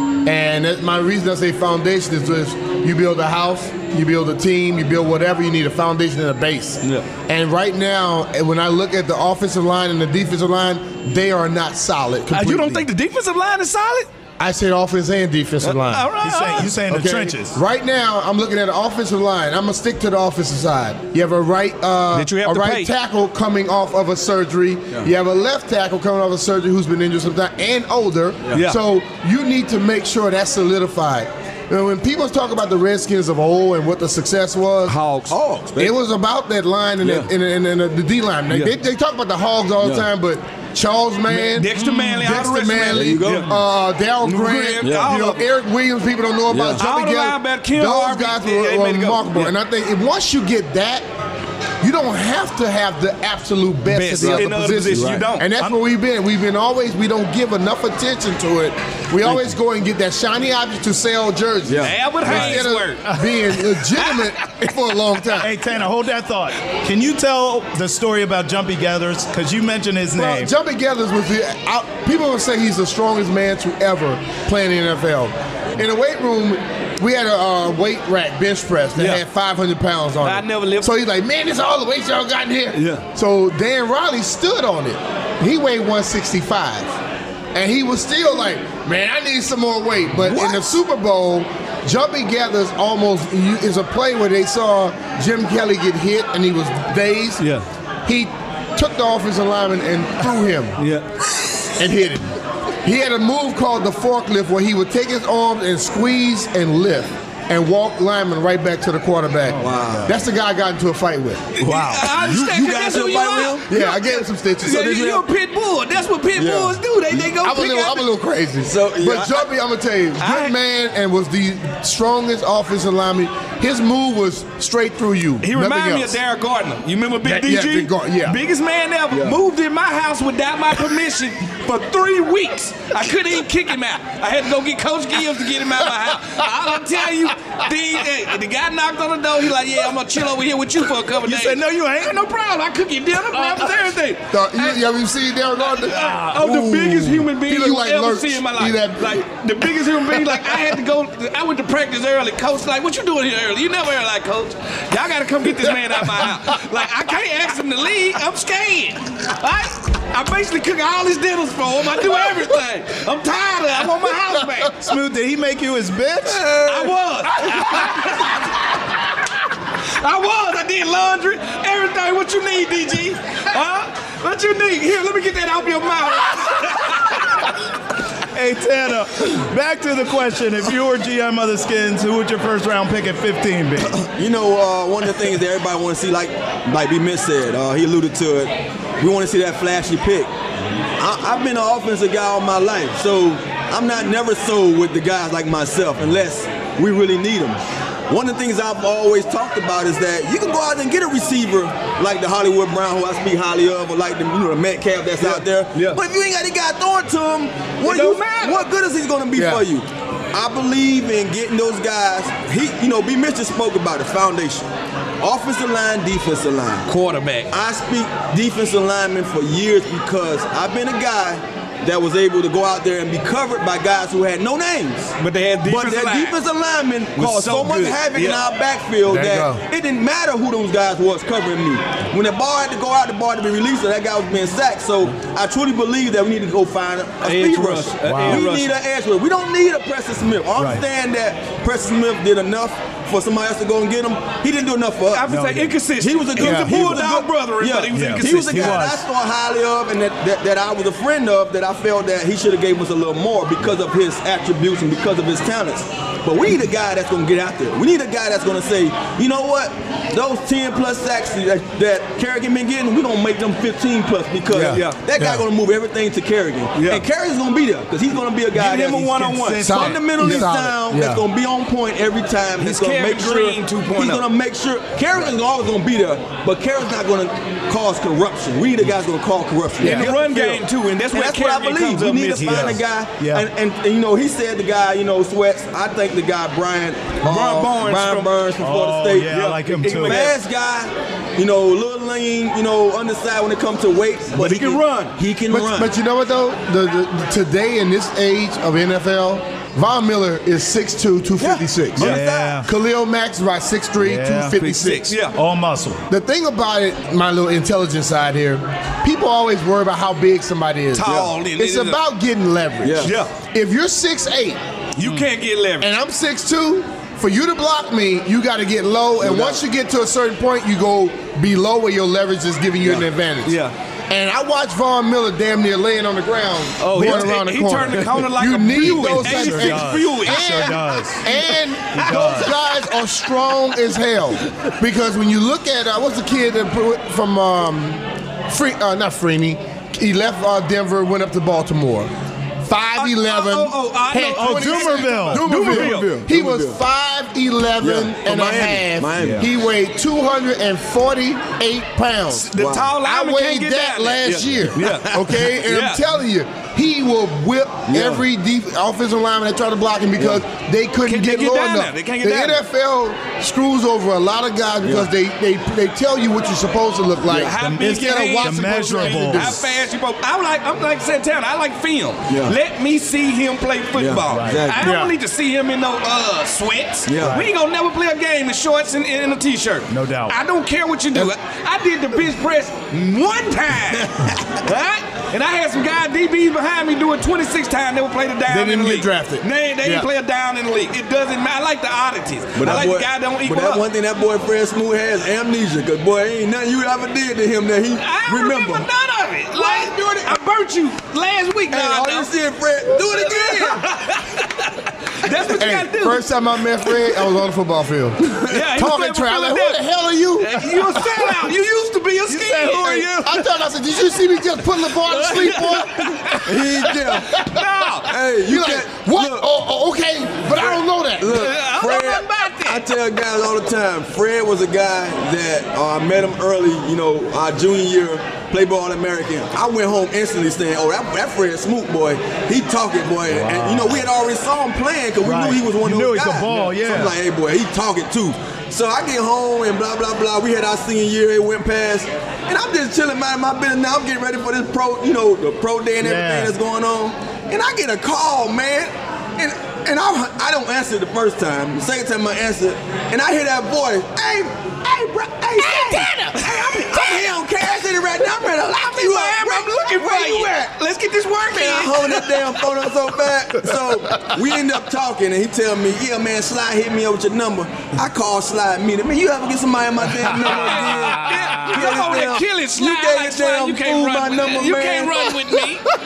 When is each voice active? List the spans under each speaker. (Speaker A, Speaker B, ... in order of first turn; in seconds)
Speaker A: 0.2-12.9, 14.4-16.1, 16.8-35.0, 35.8-51.0, 51.8-65.5, 70.1-87.0, 87.5-97.4, 98.0-100.8, 101.8-111.5, 113.7-115.1, 117.3-126.2, 127.2-128.4, 144.3-149.2, 209.3-209.6, 229.1-229.6, 246.3-247.0, 264.5-265.4, 269.6-271.2, 295.5-305.2, 306.1-314.6, 315.8-342.1, 342.6-352.5, 353.0-369.6, 374.8-375.1, 388.5-390.1, 405.5-411.4, 413.1-417.6, 418.3-421.5
Speaker B: 12.3-14.1, 15.6-16.8, 22.1-22.9, 28.5-28.8, 34.9-35.3, 41.3-43.5, 44.2-45.4, 46.8-49.5, 53.9-55.5, 61.8-63.0, 64.0-64.3, 79.0-79.2, 80.2-80.9, 82.7-83.0, 100.8-101.0, 111.5-118.1, 120.2-120.5, 125.4-144.8, 145.8-164.8, 166.5-168.3, 170.0-177.2, 205.2-206.0, 207.8-208.7, 216.9-217.5, 225.2-226.4, 227.2-228.4, 237.2-238.7, 245.1-248.8, 264.6-265.0, 266.7-267.0, 268.5-269.9, 272.6-274.2, 279.8-282.8, 287.2-288.3, 289.2-290.4, 294.3-295.1, 304.6-305.4, 310.9-312.0, 313.0-313.3, 314.9-315.9, 323.4-323.7, 326.8-330.8, 331.9-332.7, 342.9-346.2, 352.3-356.0, 361.1-362.6, 367.3-393.8, 398.0-402.3, 402.9-406.3, 406.8-407.2, 408.4-409.8, 410.4-413.3, 415.0-416.4, 417.3-418.1, 420.6-422.8, 455.6-457.3, 458.8-462.6, 470.4-475.9
Speaker C: 16.2-17.6, 62.3-63.4, 65.4-70.5, 109.5-110.0, 111.6-112.1, 141.2-142.2, 143.3-143.7, 164.8-166.7, 178.3-184.0, 238.0-238.5, 240.6-240.8, 245.3-245.7, 247.9-249.0, 268.9-270.4, 279.8-280.1, 282.4-283.5, 288.6-290.3, 302.0-302.7, 304.0-304.6, 305.3-306.0, 315.0-315.3, 327.0-327.2, 328.7-331.3, 331.9-332.5, 344.2-345.8, 349.2-349.5, 367.6-369.6, 374.3-374.6, 377.2-377.5, 379.9-380.3, 412.3-413.4, 433.3-434.0, 435.2-437.1, 446.0-446.5, 470.2-471.8
Speaker D: 35.3-36.0, 37.0-37.3, 39.8-40.0, 42.9-43.5, 44.8-45.1, 46.5-46.8, 54.2-55.2, 61.6-62.0, 109.6-110.1, 111.6-113.7, 114.6-115.2, 116.3-116.8, 118.6-119.5, 129.1-129.4, 183.9-190.3, 191.0-214.7, 215.2-216.9, 217.5-225.1, 225.7-245.3, 246.0-289.4, 290.0-295.9, 301.4-302.6, 311.0-311.3, 312.8-313.1, 319.2-319.6, 345.7-346.8, 347.8-349.5, 352.6-352.9, 357.9-358.2, 364.8-365.1, 372.3-372.6, 373.9-374.9, 377.1-377.4, 384.0-384.4, 392.6-398.9, 399.5-400.3, 401.7-403.9, 416.3-417.4, 418.0-419.5, 421.2-460.7, 461.5-475.4